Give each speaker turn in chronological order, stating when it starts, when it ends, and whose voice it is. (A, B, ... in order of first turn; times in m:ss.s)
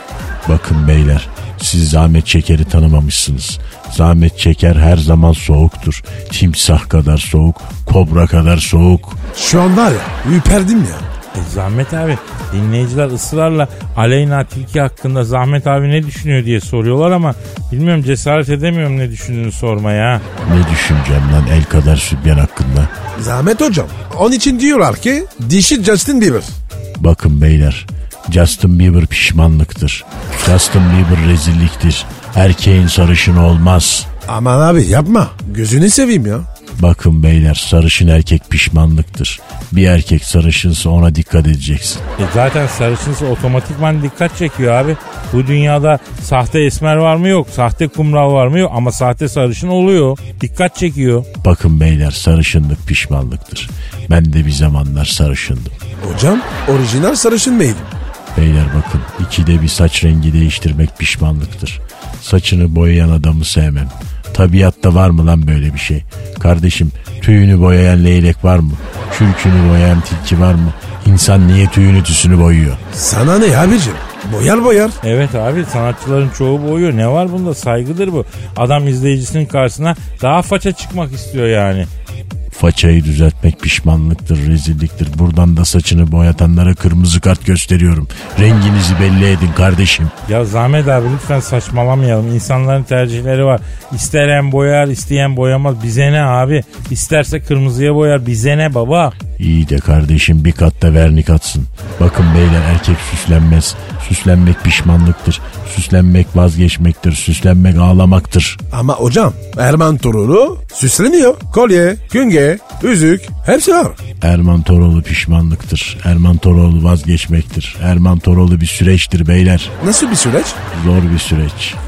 0:00.4-0:09.2 A
0:09.3-0:11.0 B
0:11.3-0:20.2 C
0:20.4-0:22.9 A
0:23.2-0:26.5 B
0:27.0-0:34.1 A
0:34.3-0:36.4 B
0:36.8-0:42.0 A
0:42.2-0:51.3 C
0:51.4-0:55.8 A
0:56.0-0:57.9 B
0:58.3-1:12.8 A
1:12.9-1:15.0 B
1:15.0-1:21.9 C
1:22.5-1:30.1 A
1:30.3-1:39.1 C
1:39.4-1:48.6 A
1:48.7-1:54.0 B
1:54.2-1:59.7 A
1:59.8-2:00.6 B
2:00.7-2:01.8 A